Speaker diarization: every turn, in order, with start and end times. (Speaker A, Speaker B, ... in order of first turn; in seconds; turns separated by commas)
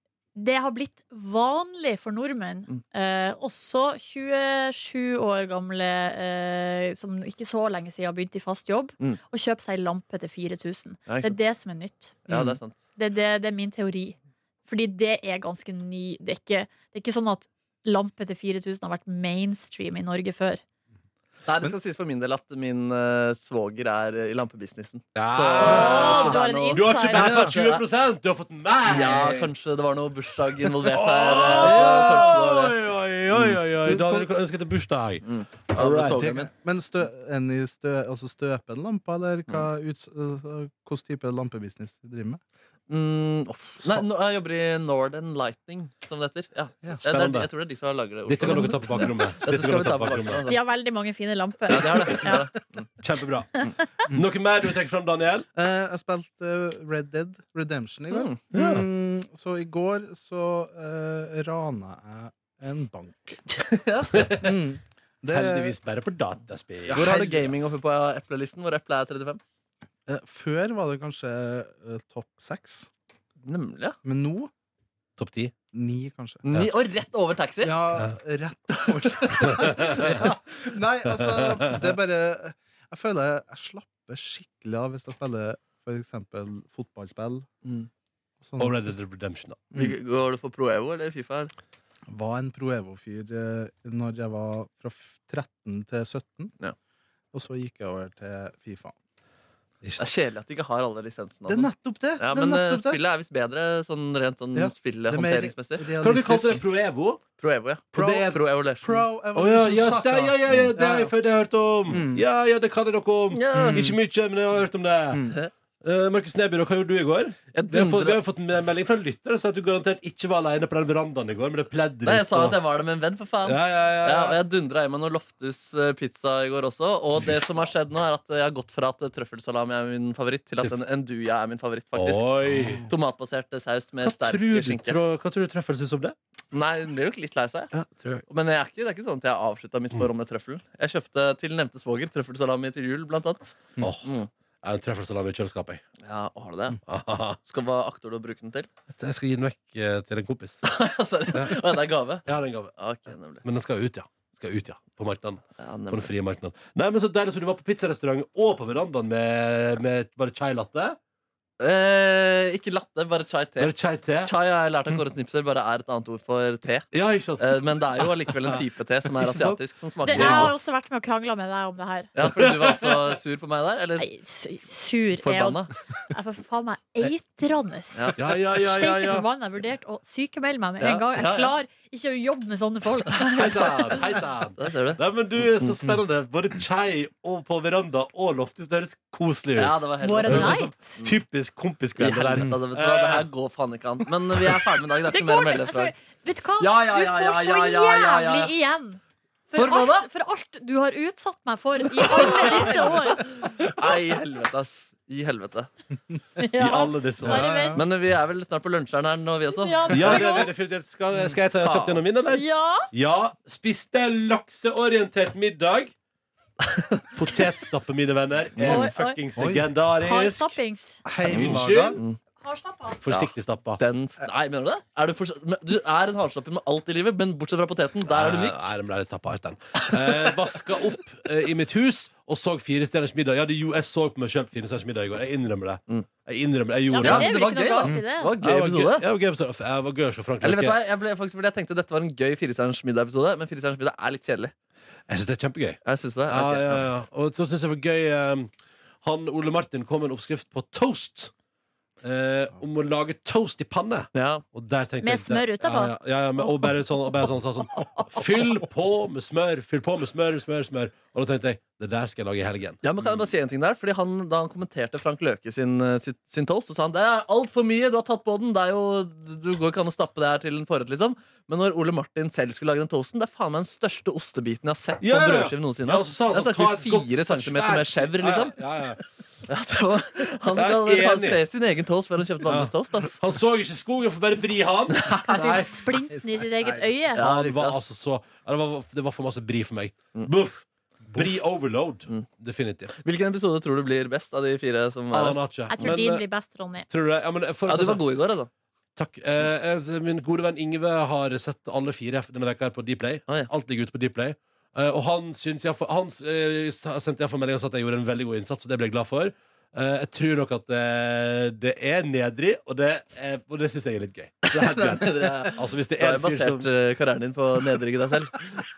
Speaker A: 0.3-12.2, Speaker B: 11.1-11.4, Speaker B: 12.3-12.8, Speaker C: 12.3-12.6, Speaker A: 12.9-20.6, Speaker B: 21.4-27.8, Speaker D: 25.1-29.5, Speaker A: 25.6-27.6, Speaker C: 25.6-26.1, Speaker C: 27.1-27.6, Speaker B: 28.9-32.8, Speaker D: 30.9-36.3, Speaker C: 31.6-32.4, Speaker B: 33.4-34.2, Speaker C: 33.9-34.1, Speaker B: 35.2-36.5, Speaker C: 36.1-42.4, Speaker B: 42.9-50.6, Speaker D: 47.0-47.5, Speaker D: 48.3-50.4, Speaker C: 48.5-49.0, Speaker A: 50.5-52.4, Speaker B: 51.7-52.9, Speaker D: 53.0-55.5, Speaker C: 55.5-63.4, Speaker B: 58.1-58.4, Speaker D: 58.5-58.9, Speaker B: 63.5-64.2, Speaker D: 64.1-64.5, Speaker C: 64.3-65.7, Speaker D: 65.3-67.4, Speaker C: 66.9-67.5, Speaker B: 66.9-69.4, Speaker C: 70.1-72.9, Speaker B: 73.4-74.0, Speaker C: 74.0-74.5, Speaker D: 75.2-75.5, Speaker C: 75.7-76.4, Speaker B: 76.4-77.8, Speaker C: 77.6-87.5, Speaker B: 79.0-80.1, Speaker D: 79.6-80.2, Speaker D: 81.1-81.8, Speaker B: 87.6-87.9, Speaker C: 88.4-88.9, Speaker D: 88.6-89.6, Speaker B: 89.7-91.5, Speaker C: 92.1-96.5, Speaker C: 97.3-98.9, Speaker B: 100.0-105.9, Speaker C: 101.5-103.0, Speaker C: 104.5-106.6, Speaker D: 106.0-107.2, Speaker B: 107.4-109.1, Speaker C: 107.9-111.1, Speaker D: 109.3-115.2, Speaker C: 111.9-112.2, Speaker B: 113.3-114.0, Speaker C: 113.5-113.9, Speaker C: 115.1-115.4, Speaker D: 115.8-122.6, Speaker B: 117.5-118.2, Speaker B: 122.0-135.0, Speaker D: 123.4-124.4, Speaker D: 131.9-132.9, Speaker D: 134.0-136.1, Speaker B: 136.5-137.7, Speaker D: 137.7-138.2, Speaker B: 138.3-144.3, Speaker D: 143.8-144.1, Speaker D: 144.6-145.8, Speaker B: 146.0-146.8, Speaker D: 146.9-147.4, Speaker B: 147.4-148.7, Speaker D: 148.9-150.6, Speaker B: 150.6-153.4, Speaker D: 152.2-152.7, Speaker D: 153.4-161.0, Speaker B: 155.6-156.1, Speaker B: 161.6-163.7, Speaker D: 163.6-164.3, Speaker B: 164.2-170.5, Speaker D: 166.9-167.6, Speaker D: 168.3-168.6, Speaker D: 169.2-169.6, Speaker A: 170.0-172.1, Speaker D: 170.1-170.6, Speaker B: 172.1-174.1, Speaker D: 172.2-173.2, Speaker A: 174.0-184.1, Speaker B: 175.2-175.7, Speaker B: 177.9-178.3, Speaker D: 178.2-179.3, Speaker B: 180.8-181.5, Speaker D: 183.3-193.2, Speaker B: 183.9-185.0, Speaker B: 189.6-191.2, Speaker A: 190.0-191.0, Speaker B: 192.0-195.9, Speaker A: 195.1-199.0, Speaker B: 196.6-198.5, Speaker A: 199.5-203.3, Speaker B: 199.5-200.1, Speaker B: 202.1-205.7, Speaker A: 206.4-207.8, Speaker D: 206.5-207.5, Speaker C: 207.2-207.9, Speaker B: 207.7-210.5, Speaker A: 209.5-210.5, Speaker D: 209.9-215.9, Speaker B: 211.6-212.0, Speaker A: 212.3-212.9, Speaker B: 216.6-217.1, Speaker D: 217.1-220.6, Speaker B: 218.6-218.9, Speaker A: 218.6-219.2, Speaker C: 219.3-219.7, Speaker A: 220.0-221.0, Speaker C: 221.0-222.0, Speaker D: 221.2-222.0, Speaker B: 221.3-222.2, Speaker A: 222.4-223.0, Speaker D: 223.0-223.8, Speaker B: 223.1-228.7, Speaker D: 228.1-237.3, Speaker B: 229.8-230.5, Speaker A: 236.9-238.3, Speaker B: 237.0-239.1, Speaker D: 238.4-240.8, Speaker B: 240.4-244.5, Speaker D: 245.1-251.3, Speaker B: 245.8-246.8, Speaker D: 252.0-262.8, Speaker B: 254.1-254.4, Speaker A: 255.0-255.9, Speaker B: 262.8-278.6, Speaker D: 275.0-279.0, Speaker B: 279.5-283.2, Speaker D: 280.6-281.4, Speaker D: 282.4-285.7, Speaker B: 284.9-285.6, Speaker A: 285.1-287.2, Speaker C: 286.1-286.9, Speaker B: 287.1-287.9, Speaker D: 287.2-292.9, Speaker B: 292.9-295.9, Speaker D: 295.1-296.2, Speaker A: 295.7-296.9, Speaker D: 296.9-298.0, Speaker B: 297.7-298.5, Speaker D: 298.9-316.7, Speaker B: 314.5-318.4